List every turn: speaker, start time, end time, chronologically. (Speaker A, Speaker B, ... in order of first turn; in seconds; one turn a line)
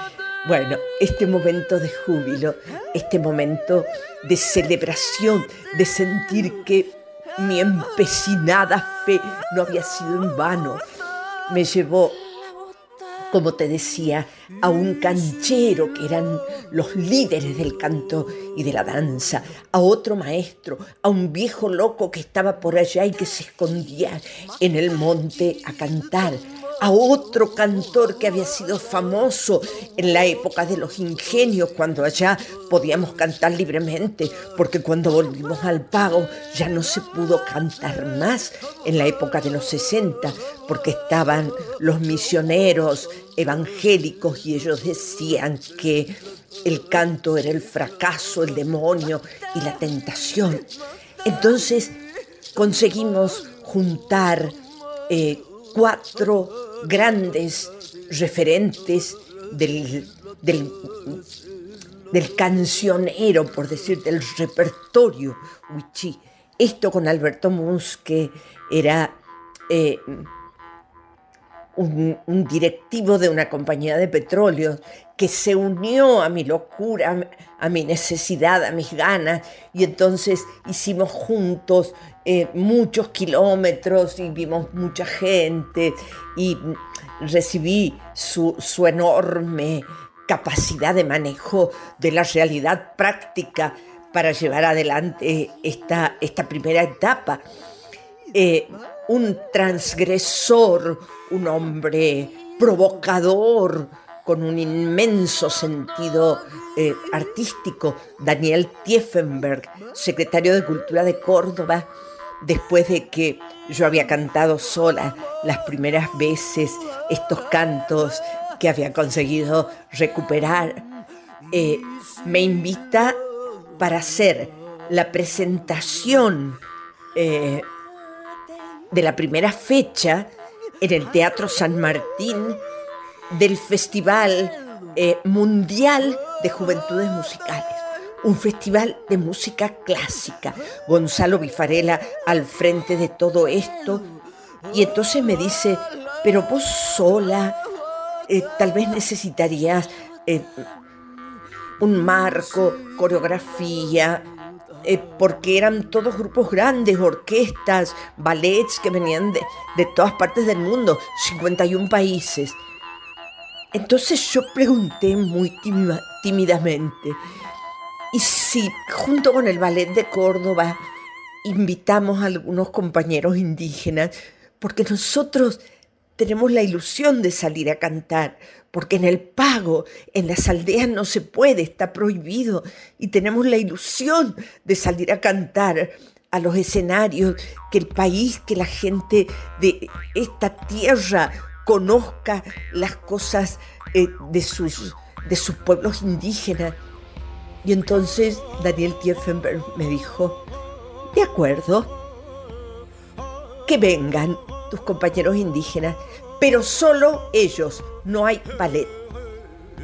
Speaker A: 0.4-10.8
Speaker A: 11.5-12.2
Speaker A: 13.3-50.7
Speaker A: 51.2-52.0
Speaker A: 52.6-54.5
Speaker A: 55.1-61.2
Speaker A: 62.1-69.2
Speaker A: 69.7-70.3
Speaker A: 71.8-97.4
Speaker A: 98.3-111.9
Speaker A: 112.4-120.8
Speaker A: 121.5-123.2
Speaker A: 123.8-126.6
Speaker A: 127.2-127.7
Speaker A: 128.9-130.3
Speaker A: 130.8-132.6
Speaker A: 133.3-144.1
Speaker A: 144.7-147.6
Speaker A: 148.3-150.7
Speaker A: 151.8-154.3
Speaker A: 154.8-162.6
Speaker A: 163.7-167.2
Speaker A: 168.1-170.8
Speaker A: 171.4-175.6
Speaker A: 176.2-196.8
Speaker A: 197.6-200.4
Speaker A: 201.1-202.0
Speaker A: 203.7-208.9